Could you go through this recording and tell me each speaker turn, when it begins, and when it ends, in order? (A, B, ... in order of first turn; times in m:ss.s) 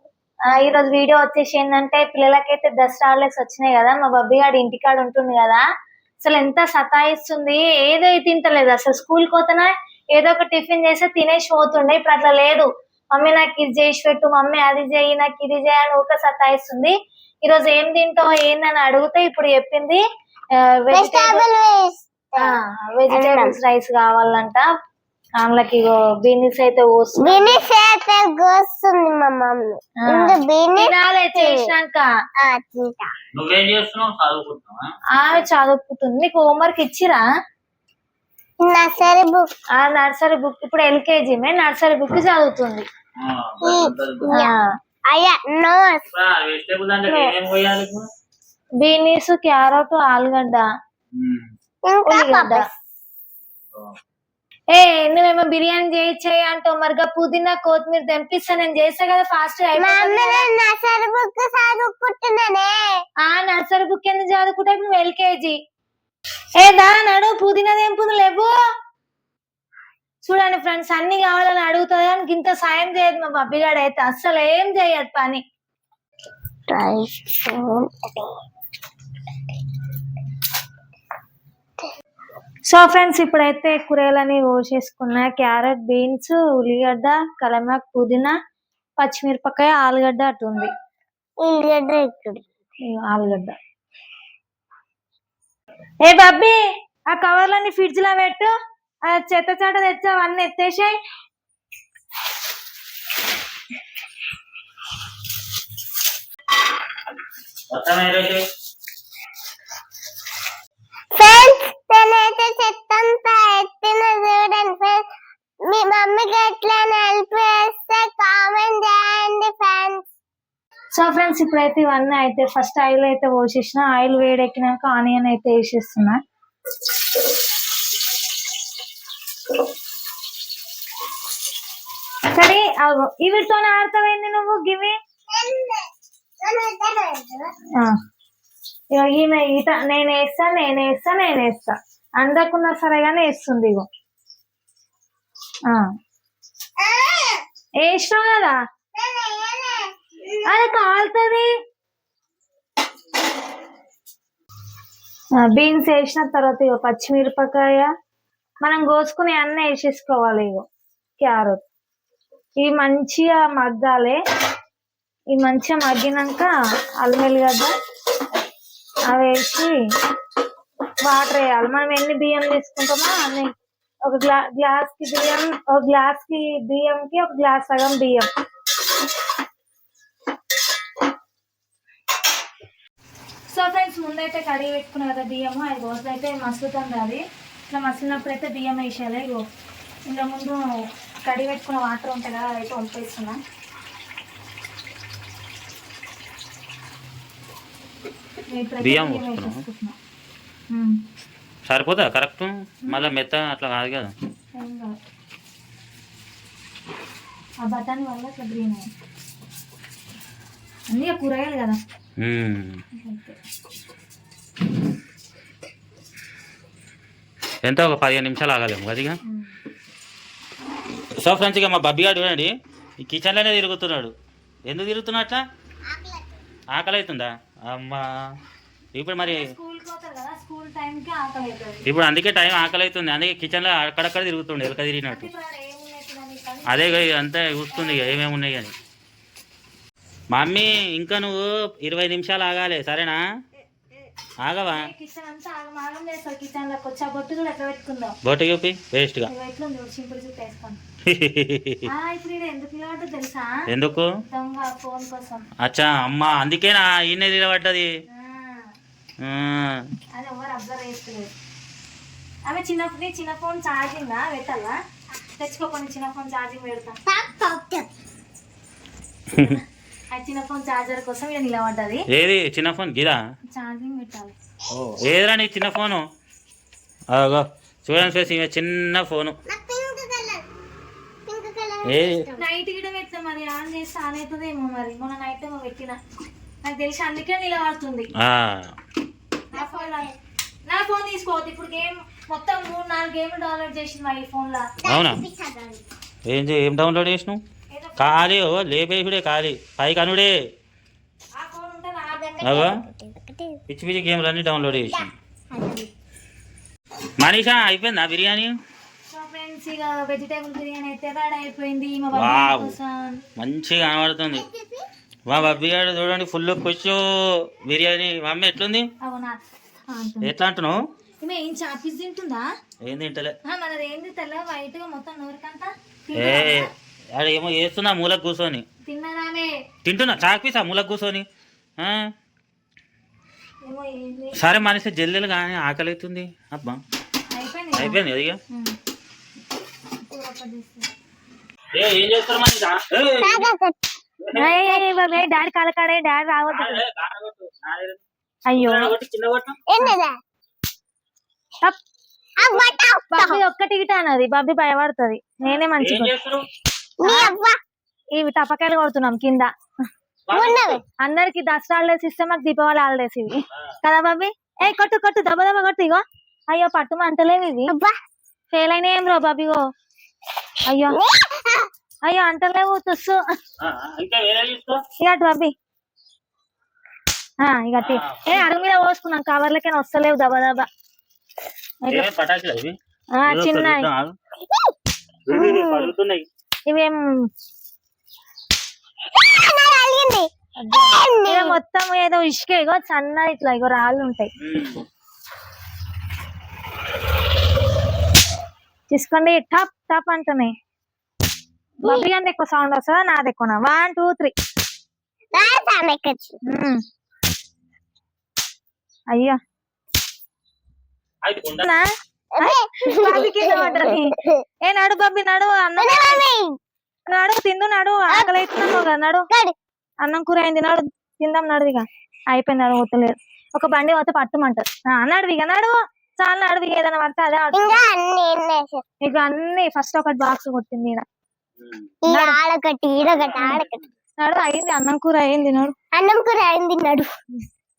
0:00.5-0:05.6 A
0:06.2-0:20.0 A
0:20.8-0:21.4 A
0:20.9-0:22.5 B
0:22.4-0:24.7 A
0:23.1-0:23.6 B
0:25.4-0:27.6 A
0:27.2-0:31.7 B
0:30.0-0:32.1 A
0:32.4-0:33.1 B
0:33.3-0:34.8 C
0:35.2-0:37.2 A
0:38.6-0:39.5 B
0:39.8-0:42.9 A
0:43.2-0:44.2 C
0:43.6-0:44.6 B
0:44.3-0:44.6 A
0:45.1-0:46.0 B
0:46.1-0:48.0 C
0:47.1-0:47.4 B
0:48.8-0:50.7 A
0:51.2-0:51.5 C
0:51.9-0:52.8 B
0:52.1-0:52.6 A
0:54.7-1:00.5 A
0:59.8-1:02.8 B
1:03.2-1:05.6 A
1:06.6-1:08.5 A
1:10.2-1:15.4 A
1:16.7-1:18.3 B
1:22.7-1:28.3 A
1:29.0-1:30.7 A
1:31.4-1:32.4 B
1:32.9-1:33.6 A
1:36.0-1:36.6 A
1:37.1-1:38.5 A
1:39.1-1:41.0 A
1:47.7-1:48.4 C
1:51.2-1:55.0 B
1:55.7-2:00.0 B
2:00.9-2:06.2 A
2:12.3-2:15.0 A
2:15.3-2:15.8 B
2:16.4-2:17.5 B
2:18.9-2:23.9 A
2:26.8-2:27.4 B
2:27.8-2:28.6 A
2:29.0-2:30.4 B
2:30.5-2:31.5 A
2:35.4-2:37.9 A
2:38.6-2:40.6 A
2:41.2-2:41.6 A
2:42.6-2:44.2 A
2:45.3-2:46.5 A
2:47.0-2:47.7 A
2:49.1-2:49.7 A
2:51.0-2:53.5 A
2:54.0-2:58.3 A
3:03.5-3:09.4 A
3:10.1-3:10.7 A
3:11.2-3:13.4 A
3:18.5-3:20.0 A
3:18.8-3:19.6 C
3:20.7-3:21.0 A
3:21.7-3:24.1 C
3:24.6-3:25.0 A
3:27.6-3:28.9 A
3:30.9-3:31.8 A
3:32.2-3:32.8 C
3:33.0-3:33.4 A
3:37.7-3:39.2 C
3:39.3-3:39.5 A
3:41.2-3:44.1 C
3:44.7-3:45.4 C
3:45.9-3:46.3 B
3:46.7-3:48.0 C
3:49.0-3:49.5 C
3:49.2-3:51.8 A
3:51.8-3:55.3 C
3:55.1-3:57.1 A
3:56.7-3:58.7 C
3:57.7-3:58.2 A
4:00.3-4:03.2 C
4:04.4-4:04.9 C
4:04.7-4:08.1 A
4:08.2-4:09.3 C
4:09.3-4:10.8 A
4:11.1-4:11.8 C
4:11.9-4:13.5 A
4:13.7-4:14.1 C
4:14.3-4:15.5 A
4:15.6-4:17.9 C
4:18.1-4:18.7 A
4:19.2-4:19.9 C
4:20.2-4:21.3 A
4:22.5-4:24.8 A
4:25.4-4:27.0 A
4:27.1-4:27.9 B
4:29.3-4:29.6 C
4:29.4-4:32.0 A
4:32.1-4:33.2 C
4:33.5-4:34.4 A
4:34.8-4:36.0 C
4:37.1-4:39.3 C
4:39.5-4:40.4 B
4:41.3-4:42.4 B
4:41.8-4:42.2 C
4:42.4-4:46.0 A
4:46.6-4:48.1 A
4:48.2-4:48.7 C
4:49.5-4:50.1 A
4:49.5-4:50.2 B
4:50.7-4:54.7 A
4:54.8-4:55.8 B
4:54.9-4:55.2 C
4:56.3-4:57.4 C
4:57.7-4:58.3 A
4:58.0-5:00.3 C
5:01.4-5:02.3 A
5:02.1-5:03.6 B
5:02.4-5:02.7 C
5:03.7-5:05.1 C
5:04.8-5:05.9 B
5:07.2-5:08.5 C
5:09.1-5:13.2 A
5:12.1-5:12.8 C
5:13.4-5:14.5 C
5:14.3-5:14.9 B
5:15.3-5:17.0 C
5:17.7-5:18.9 C
5:19.0-5:20.3 A
5:20.2-5:20.8 C
5:21.2-5:22.5 A
5:22.8-5:23.4 C
5:23.5-5:26.7 A
5:26.2-5:28.6 C
5:28.9-5:29.5 A
5:29.8-5:31.2 C
5:31.8-5:32.1 C
5:33.6-5:34.4 A
5:34.4-5:36.8 C
5:37.3-5:38.0 A
5:37.8-5:38.4 C
5:40.1-5:40.9 A
5:41.7-5:43.5 C
5:43.2-5:43.8 B
5:44.2-5:44.5 C
5:44.4-5:46.8 A
5:46.5-5:48.0 C
5:48.5-5:48.9 A
5:48.5-5:49.6 C
5:49.7-5:50.2 B
5:52.4-5:53.4 B
5:53.1-5:56.1 A
5:55.4-5:56.5 C
5:57.0-5:57.6 B
5:57.0-5:57.3 A
5:58.2-5:59.5 A
6:00.3-6:00.8 C
6:00.3-6:00.8 B
6:01.0-6:07.7 A
6:07.7-6:08.0 B
6:08.5-6:09.6 A
6:10.7-6:11.0 A
6:10.9-6:11.7 B
6:12.1-6:13.2 A
6:13.6-6:14.8 C
6:15.0-6:15.5 A
6:17.4-6:20.7 A
6:17.8-6:18.5 C
6:21.8-6:22.1 A
6:21.9-6:24.2 C
6:23.2-6:23.9 A
6:25.3-6:26.3 C
6:25.3-6:25.9 B
6:26.7-6:27.3 A
6:29.2-6:30.3 B
6:30.6-6:34.3 A
6:30.9-6:31.6 B
6:34.4-6:34.8 C
6:38.9-6:40.5 A
6:41.8-6:44.3 A
6:45.3-6:46.4 B
6:46.4-6:46.8 A
6:51.2-6:51.7 C
6:51.6-6:51.9 A
6:52.4-6:54.4 B
6:52.4-6:56.2 A
6:55.8-6:56.6 B
6:57.1-6:59.3 A
6:58.1-6:59.6 B
7:00.0-7:07.8 A
7:07.5-7:08.8 B
7:09.0-7:11.0 A
7:11.6-7:11.9 C
7:12.1-7:13.8 B
7:12.1-7:12.4 A
7:13.0-7:13.8 C
7:14.2-7:15.7 A
7:15.9-7:17.1 B